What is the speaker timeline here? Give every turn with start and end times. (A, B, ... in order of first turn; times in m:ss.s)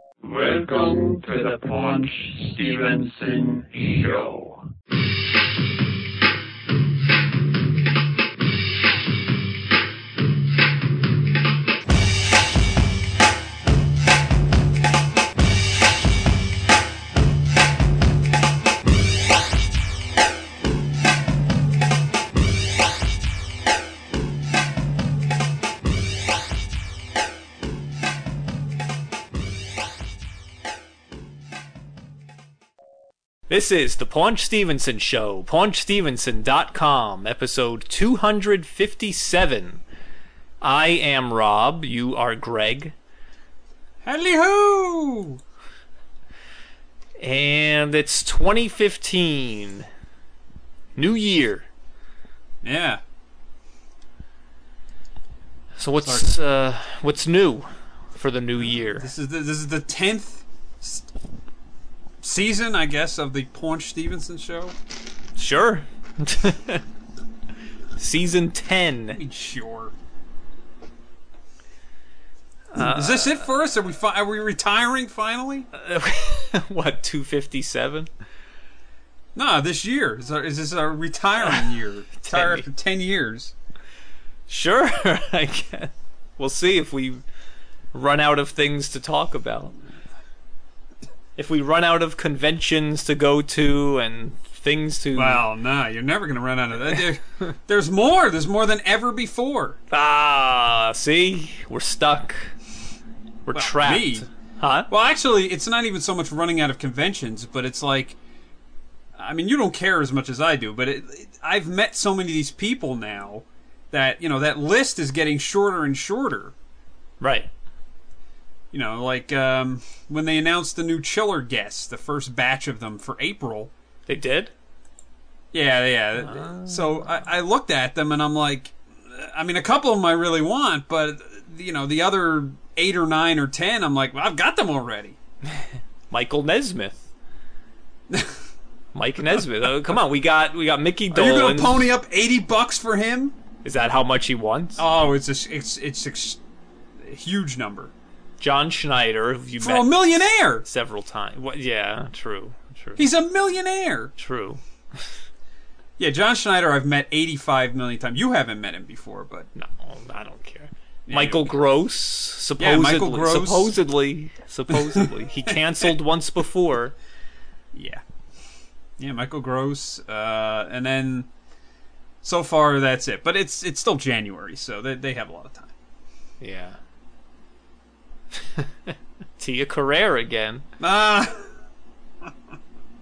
0:00.2-0:04.7 A
0:33.5-0:39.8 B
0:40.6-0:42.9 B
0:44.0-0:45.4 C
0:47.2-0:49.9 B
0:51.0-0:51.7 B
0:52.6-0:53.0 C
0:55.8-0:59.1 B
0:56.0-0:56.3 C
0:58.6-1:01.1 C
1:02.2-1:04.8 C
1:05.4-1:06.8 B
1:08.0-1:09.2 B
1:09.1-1:10.0 C
1:12.7-1:13.4 B
1:12.8-1:15.7 C
1:15.7-1:18.1 B
1:19.4-1:23.5 C
1:22.2-1:22.7 B
1:24.5-1:27.2 B
1:27.9-1:29.8 B
1:31.4-1:35.4 B
1:35.1-1:39.8 C
1:39.9-1:42.5 B
1:43.5-1:44.9 B
1:43.5-1:44.3 C
1:44.9-1:48.2 C
1:49.2-1:56.6 C
1:57.2-1:57.5 B
1:58.7-2:03.7 C
2:04.1-2:04.5 B
2:05.5-2:15.2 C
2:06.2-2:07.2 B
2:16.1-2:17.0 B
2:18.1-2:18.4 C
2:18.9-2:21.9 B
2:21.1-2:23.4 C
2:23.6-2:24.8 B
2:24.8-2:26.4 C
2:27.0-2:27.9 C
2:28.4-2:30.1 B
2:29.6-2:30.7 C
2:30.6-2:33.1 B
2:33.0-2:34.1 C
2:34.2-2:35.1 B
2:36.0-2:39.5 C
2:39.6-2:47.0 B
2:41.1-2:41.5 C
2:42.6-2:43.8 C
2:44.7-2:45.5 C
2:47.7-2:48.0 C
2:49.0-2:51.3 C
2:52.2-2:55.8 C
2:56.4-2:56.8 B
2:58.4-3:00.7 B
3:00.8-3:01.5 C